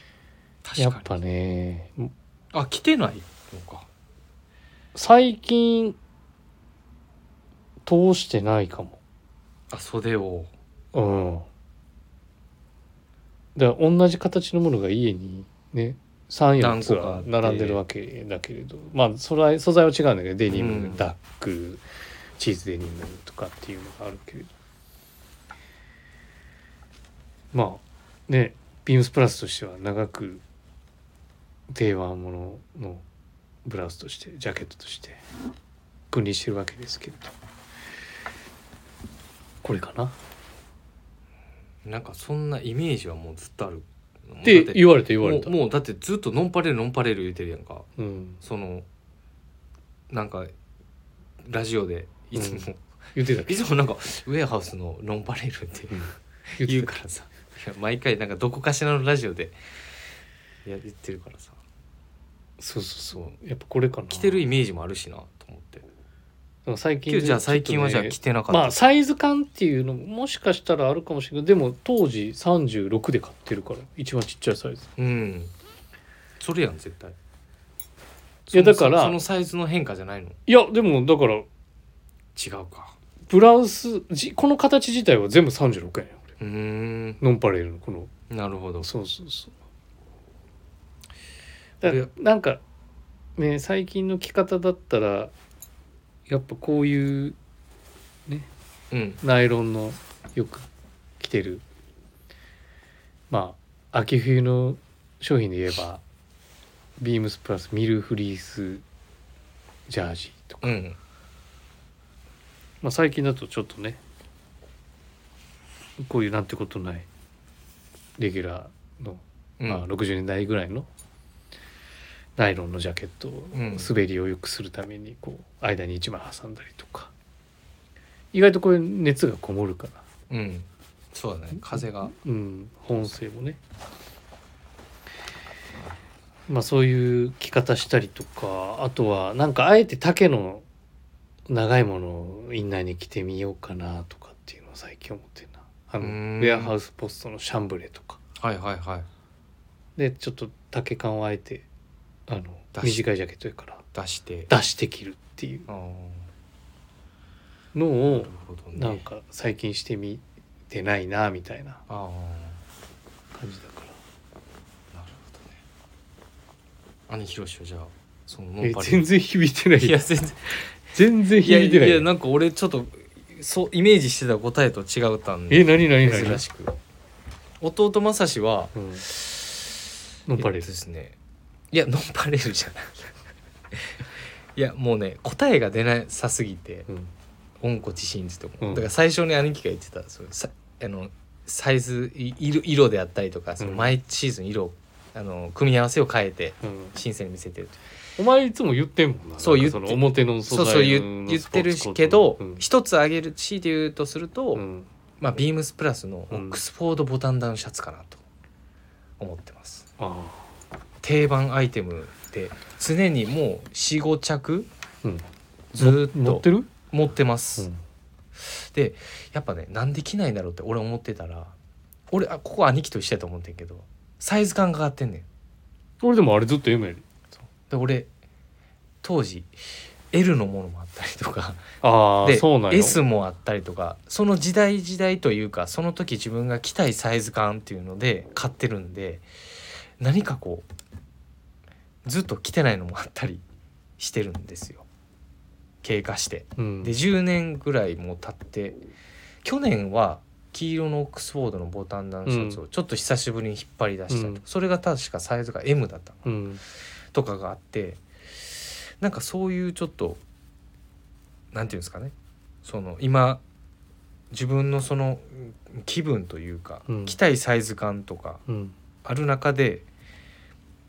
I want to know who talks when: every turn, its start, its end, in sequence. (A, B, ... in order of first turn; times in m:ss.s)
0:00.6-0:01.1 A
0:00.8-0:02.1 B
0:02.5-0:03.9 A
0:05.0-0:06.0 B
0:07.8-0:09.0 B
0:09.7-0:10.5 A
0:10.9-0:11.5 B
0:13.6-0:21.8 B
0:16.6-0:17.8 A
0:20.5-0:21.1 A
0:22.4-0:24.5 B
0:27.5-0:30.4 B
0:31.7-0:33.0 B
0:33.6-0:35.2 B
0:36.1-0:37.3 B
0:39.6-0:40.2 B
0:41.8-0:47.9 A
0:44.4-0:45.6 B
0:48.0-0:48.4 B
0:48.4-0:48.9 A
0:50.1-0:50.5 A
0:51.4-0:52.8 A
0:52.3-0:53.6 B
0:53.4-0:59.6 A
0:55.9-0:57.0 B
1:00.6-1:01.6 A
1:02.6-1:04.4 B
1:04.1-1:05.9 A
1:06.7-1:14.9 B
1:07.1-1:08.8 A
1:15.0-1:15.5 A
1:16.4-1:17.2 A
1:18.5-1:20.4 A
1:18.5-1:19.2 B
1:20.5-1:21.5 B
1:22.4-1:23.0 A
1:23.3-1:26.2 B
1:26.4-1:27.2 A
1:27.2-1:28.1 B
1:28.3-1:28.9 A
1:28.8-1:29.5 B
1:31.8-1:32.6 B
1:31.8-1:32.1 A
1:33.4-1:35.3 B
1:36.3-1:37.4 B
1:38.9-1:39.2 A
1:39.2-1:40.7 B
1:41.2-1:41.6 B
1:43.3-1:46.0 B
1:47.0-1:48.8 B
1:49.9-1:50.7 B
1:50.6-1:51.0 A
1:52.8-1:54.0 B
1:56.0-1:57.1 B
1:58.2-2:00.9 B
1:59.6-1:59.8 A
2:02.4-2:07.1 B
2:03.5-2:03.9 A
2:08.3-2:10.0 B
2:10.3-2:12.1 A
2:11.7-2:13.6 B
2:16.5-2:20.6 B
2:21.5-2:28.2 B
2:26.0-2:26.7 A
2:28.4-2:29.1 A
2:30.0-2:31.7 B
2:32.3-2:33.8 B
2:32.7-2:33.0 A
2:33.9-2:34.5 A
2:34.5-2:35.7 B
2:35.7-2:36.3 A
2:37.7-2:41.8 B
2:38.1-2:39.0 A
2:41.9-2:42.6 A
2:43.4-2:44.0 B
2:44.9-2:45.6 A
2:47.1-2:49.1 A
2:48.6-2:50.0 B
2:49.8-2:50.6 A
2:50.9-2:52.1 B
2:51.4-2:56.8 A
2:55.5-2:56.4 B
2:57.6-2:59.7 A
2:58.8-2:59.1 B
3:00.3-3:00.7 B
3:00.4-3:01.2 A
3:01.7-3:03.1 A
3:03.7-3:06.9 A
3:07.6-3:17.8 A
3:08.6-3:08.9 B
3:13.6-3:13.9 B
3:16.6-3:16.9 B
3:18.2-3:22.6 B
3:19.4-3:24.6 A
3:24.6-3:24.9 B
3:25.2-3:28.2 A
3:26.3-3:26.6 B
3:29.2-3:29.9 A
3:30.0-3:30.5 B
3:31.0-3:34.7 A
3:35.7-3:37.7 A
3:35.8-3:36.7 B
3:38.4-3:41.5 A
3:42.1-3:45.3 A
3:46.0-3:47.0 B
3:47.7-3:48.1 A
3:49.0-3:49.6 A
3:50.1-3:51.7 A
3:51.8-3:53.0 B
3:52.2-3:59.3 A
4:00.0-4:00.7 A
4:02.0-4:03.4 A
4:04.0-4:04.8 A
4:05.8-4:08.8 A
4:06.6-4:07.0 B
4:09.4-4:16.3 A
4:12.3-4:12.6 B
4:14.1-4:14.4 B
4:16.2-4:16.6 B
4:17.1-4:20.2 A
4:21.5-4:23.4 A
4:24.3-4:28.4 A
4:26.9-4:27.2 B
4:28.5-4:28.8 B
4:29.0-4:29.9 A